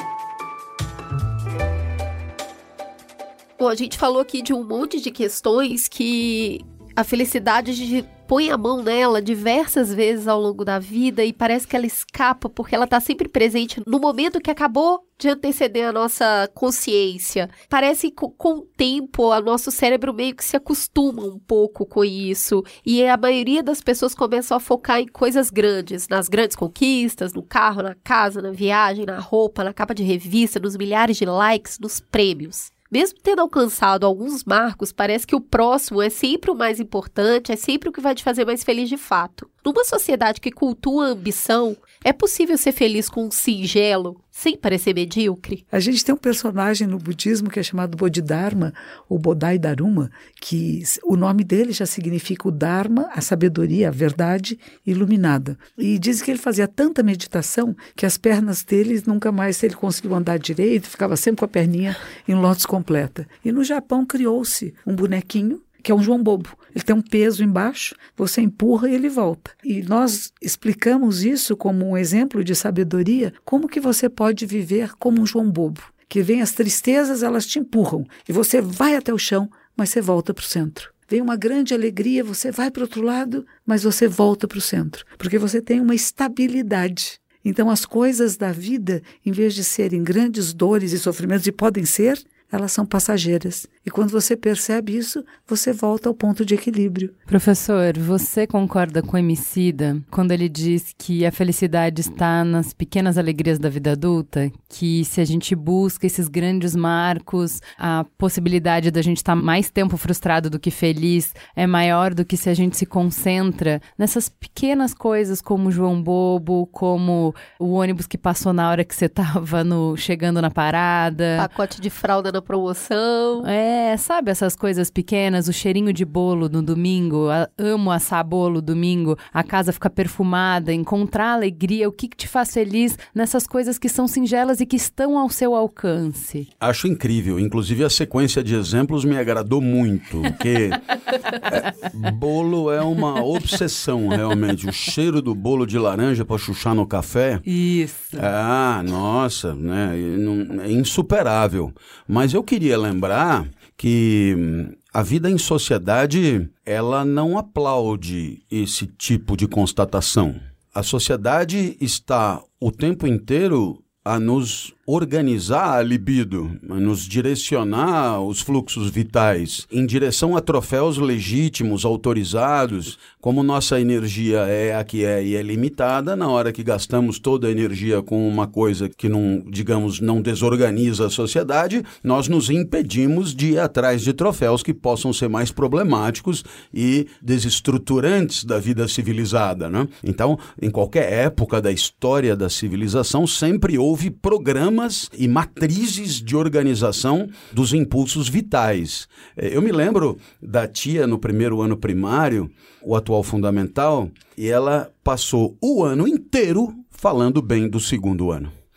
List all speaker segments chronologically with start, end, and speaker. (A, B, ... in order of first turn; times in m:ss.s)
0:03.6-0:45.6 A
0:45.7-1:37.1 B
1:37.3-2:01.5 C
2:01.4-2:03.5 A
2:03.4-2:16.5 C
2:16.6-2:20.8 D
2:21.3-2:27.4 D
2:27.4-2:28.2 C
2:28.1-3:28.5 D